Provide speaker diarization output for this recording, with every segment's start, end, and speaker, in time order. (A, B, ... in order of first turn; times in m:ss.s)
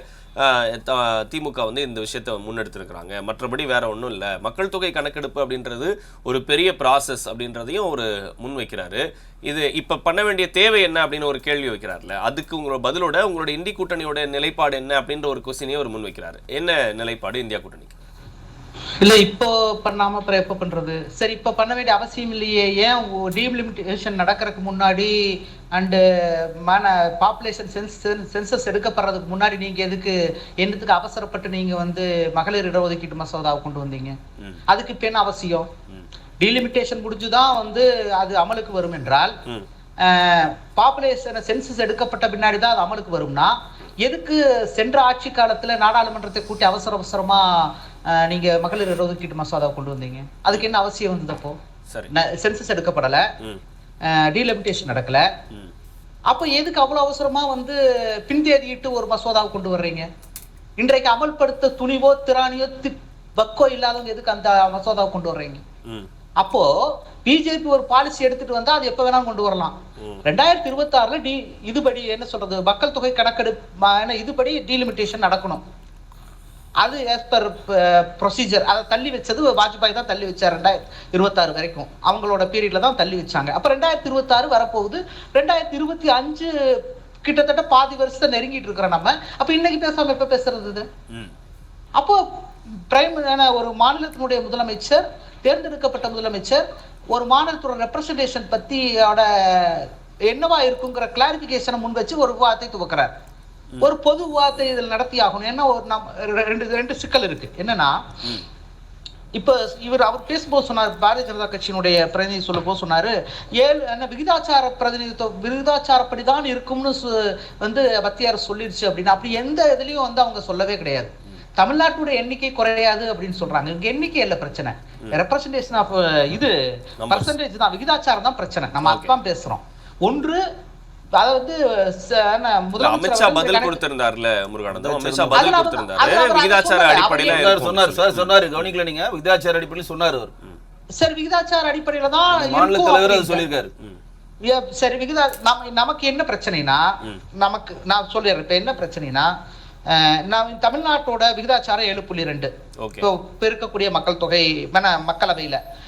0:00.4-0:17.9 A
0:19.0-0:25.1 B
0:25.7-0:26.0 B
0:26.6-0:34.2 B
0:34.7-0:35.7 B
0:36.4-0:39.4 B
0:40.0-0:51.6 B
0:52.1-0:53.2 B
0:54.1-0:55.2 B
0:56.3-1:00.1 B
1:00.8-1:05.6 B
1:06.4-1:06.7 B
1:07.2-1:09.7 B
1:10.2-1:15.6 B
1:16.8-1:30.9 B
1:32.0-1:32.2 B
1:32.9-1:43.1 B
1:43.8-1:48.0 B
1:49.4-2:06.5 B
2:07.0-2:07.3 A
2:07.1-2:10.4 B
2:08.8-2:09.1 A
2:11.2-2:13.8 B
2:12.8-2:18.7 A
2:14.7-2:15.5 C
2:15.3-2:17.5 B
2:17.1-2:20.3 C
2:21.0-2:23.4 B
2:22.3-2:23.7 C
2:24.4-2:26.8 B
2:27.4-2:29.3 B
2:29.9-2:32.5 B
2:33.0-2:35.6 B